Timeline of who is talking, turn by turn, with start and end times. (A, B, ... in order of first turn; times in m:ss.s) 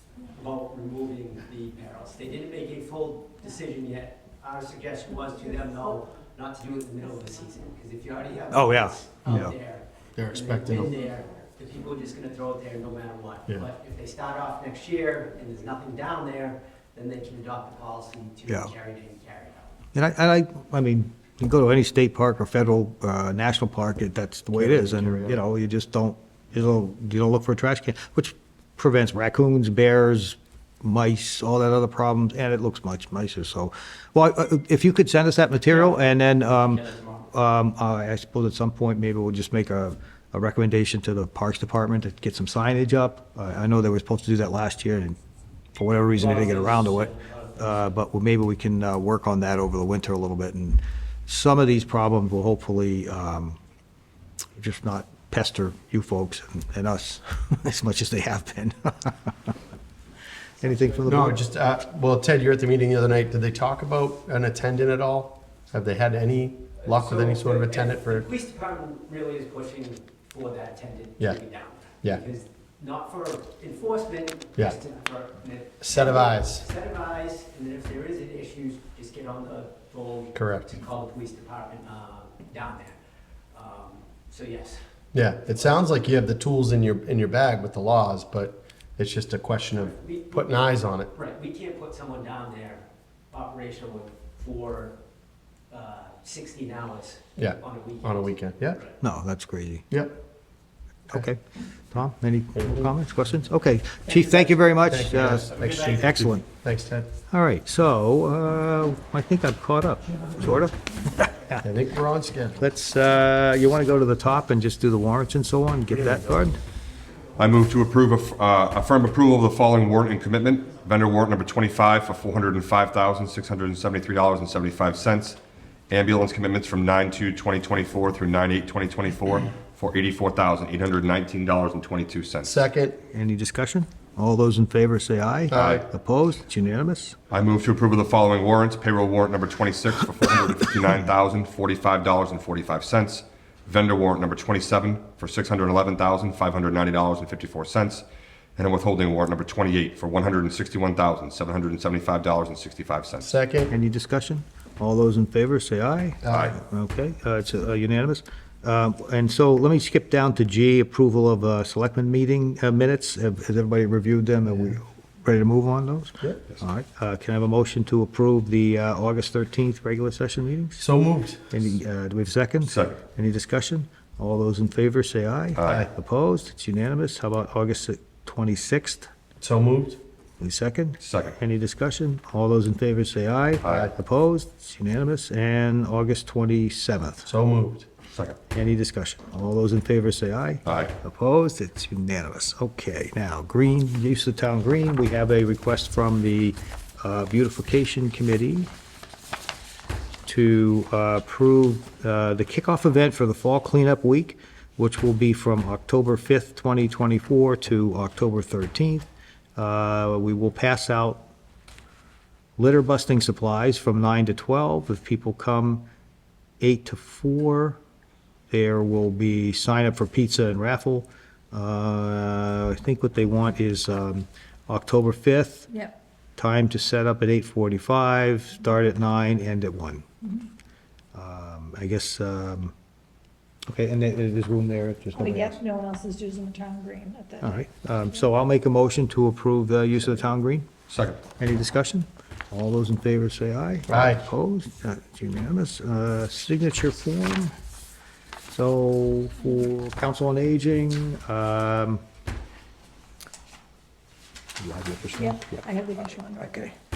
0:00.3-0:19.7 A
0:08.5-0:09.5 B
0:09.3-0:09.5 C
0:10.2-0:10.9 C
0:19.9-0:45.2 B
0:24.5-0:25.4 C
0:36.6-0:37.2 D
0:45.8-0:53.6 B
0:46.2-0:47.7 D
0:54.6-0:59.5 B
1:00.6-1:01.4 B
1:01.0-1:08.3 C
1:06.8-1:23.0 A
1:15.8-1:16.6 C
1:20.3-1:20.7 C
1:23.5-1:24.8 A
1:25.1-1:31.1 C
1:25.4-1:25.9 A
1:29.8-1:35.0 A
1:35.7-1:39.0 A
1:37.4-1:38.8 C
1:39.0-1:39.9 B
1:39.9-1:40.2 C
1:41.1-1:46.5 B
1:42.6-1:42.9 C
1:44.9-1:47.1 C
1:45.6-1:45.9 D
1:47.3-1:51.7 B
1:51.6-1:52.6 C
1:52.6-1:56.6 B
1:55.9-1:56.3 C
1:57.4-2:12.6 E
2:12.4-2:13.0 C
2:13.1-2:17.2 B
2:15.5-2:15.8 C
2:15.5-2:15.8 E
2:17.3-2:33.3 E
2:33.2-2:33.7 C
2:33.7-2:50.9 B
2:36.2-2:36.5 C
2:50.8-2:51.4 C
2:51.5-2:59.1 B
2:52.6-2:53.0 E
2:55.6-2:55.9 E
2:59.4-3:00.0 C
3:00.4-3:07.3 B
3:01.0-3:01.4 E
3:03.6-3:03.9 E
3:03.7-3:03.9 C
3:07.2-3:07.9 C
3:08.5-3:18.7 B
3:10.6-3:10.9 E
3:20.2-3:31.3 B
3:32.6-3:35.9 B
3:36.6-3:37.8 B
3:38.5-3:45.7 B
3:46.4-3:50.1 B
3:51.1-3:52.8 B
3:53.7-3:55.6 B
3:55.2-3:57.5 D
3:57.4-4:00.7 B
4:00.9-4:01.2 E
4:01.4-4:07.5 B
4:03.9-4:04.2 C
4:08.5-4:12.0 B
4:14.6-4:16.8 B
4:15.2-4:16.7 D